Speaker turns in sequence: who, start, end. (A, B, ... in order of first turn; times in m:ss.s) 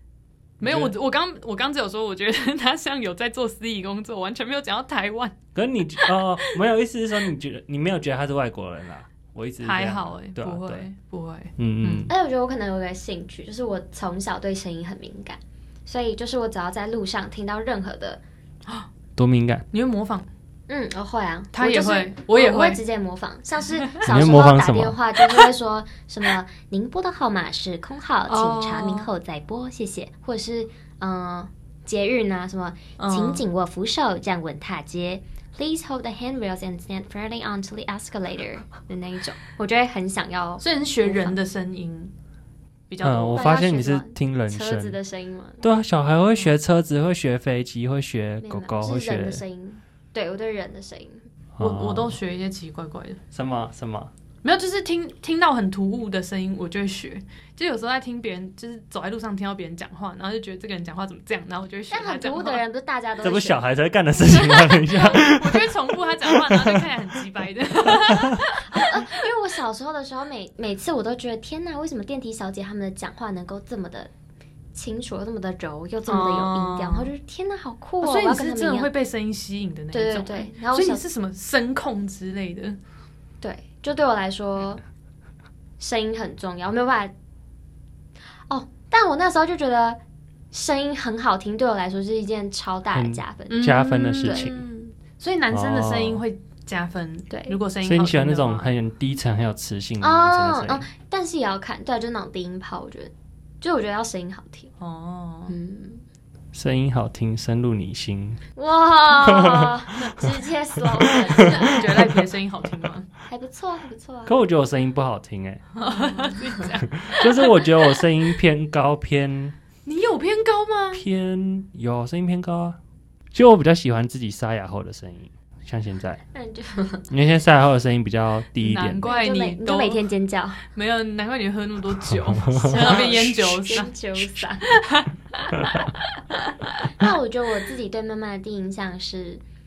0:00.6-0:00.9 A
0:00.6-0:05.4 B
0:05.6-0:10.9 A
0:06.0-0:06.6 B
0:09.6-0:12.1 B
0:11.6-0:12.1 A
0:12.1-0:18.2 C
0:19.2-0:19.7 A
0:19.7-0:20.3 B
0:20.7-0:41.4 C
0:21.5-0:22.8 B
0:24.1-0:25.0 A
0:28.3-0:29.1 B
0:33.0-0:33.4 B
0:40.6-0:42.1 B
0:42.9-0:43.7 B
0:43.0-0:45.0 A
0:43.4-0:45.7 C
0:45.6-0:49.4 A
0:48.4-0:51.3 C
0:51.6-0:52.2 A
0:51.6-0:53.2 B
0:53.3-0:54.1 A
0:54.4-1:02.6 B
1:01.9-1:03.7 C
1:03.2-1:06.9 A
1:04.2-1:04.8 C
1:04.5-1:09.3 B
1:07.9-1:08.4 A
1:08.5-1:14.1 C
1:14.7-1:18.9 C
1:16.1-1:17.1 B
1:18.0-1:22.8 B
1:19.9-1:21.0 C
1:23.4-1:24.8 C
1:25.8-1:27.1 C
1:28.5-1:30.0 C
1:30.5-1:34.6 C
1:33.0-1:34.6 A
1:33.5-1:38.7 B
1:35.5-1:36.2 A
1:37.3-1:37.6 C
1:37.8-1:40.9 A
1:40.0-1:44.7 C
1:44.8-1:45.5 B
1:45.5-1:46.0 C
1:46.5-1:48.4 A
1:48.6-1:51.9 C
1:49.1-1:52.2 A
1:51.3-1:53.1 B
1:53.3-1:54.4 C
1:54.2-1:55.6 A
1:55.8-1:58.1 B
1:55.8-1:56.7 C
1:56.8-1:59.6 A
1:59.8-2:01.0 B
2:00.9-2:02.8 A
2:03.3-2:06.2 A
2:06.3-2:07.1 C
2:07.1-2:09.0 A
2:08.6-2:10.0 B
2:09.0-2:10.6 C
2:10.7-2:13.9 B
2:12.1-2:13.6 A
2:12.7-2:14.7 C
2:14.6-2:16.0 B
2:16.9-2:19.4 C